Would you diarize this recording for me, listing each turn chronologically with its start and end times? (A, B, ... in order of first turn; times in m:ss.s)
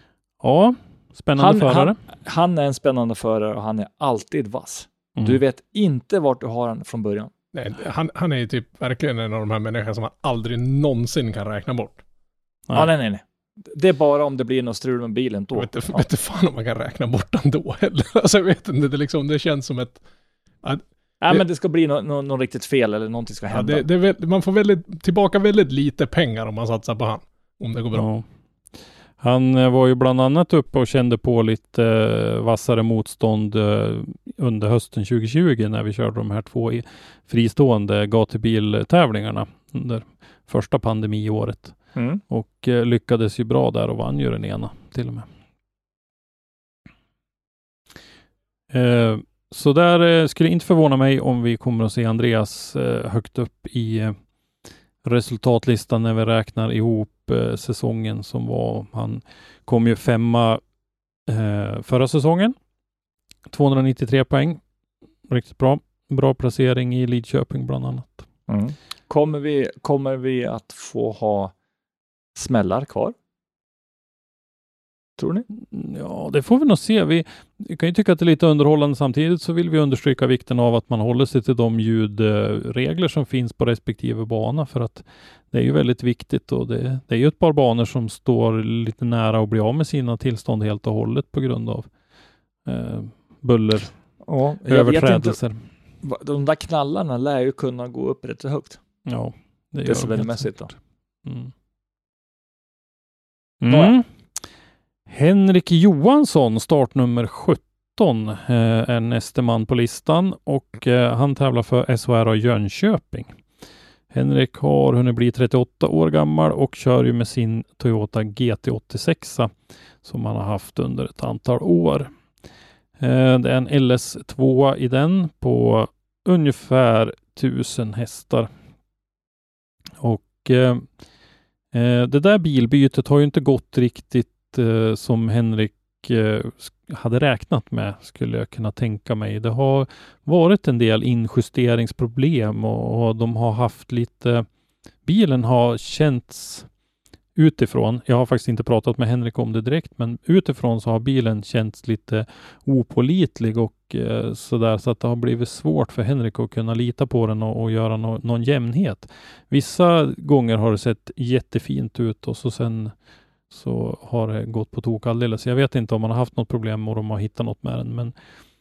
0:00.4-0:02.0 A
0:01.4-0:07.3 B
0:07.5-0:12.0 C
0:12.7-0:16.0 B
0:15.5-0:20.0 C
0:20.6-0:21.4 C
0:21.2-0:23.8 B
0:23.5-0:28.0 C
0:27.9-0:28.2 A
0:29.2-0:41.8 A
0:41.9-0:42.2 B
0:42.3-0:45.3 A
0:48.7-0:54.1 A
0:55.0-1:00.6 A
1:01.2-1:02.6 A
1:03.5-1:04.6 A
1:05.3-1:08.2 A
1:08.5-1:11.5 B
1:12.3-1:13.1 B
1:15.2-1:15.4 B
1:15.6-1:31.9 A
1:32.6-1:33.9 A
1:34.2-1:35.4 B
1:34.6-1:35.6 A
1:36.0-1:38.8 B
1:39.0-1:40.7 A
1:39.8-1:40.7 B
1:41.2-1:41.5 A
1:43.6-1:44.1 A
1:43.7-1:43.9 B
1:45.1-1:53.4 A
1:54.1-2:02.1 A
2:03.0-2:08.5 A
2:10.0-2:10.9 A
2:11.7-2:24.5 A
2:25.0-2:26.7 A
2:27.4-2:42.9 A
2:43.5-2:48.1 A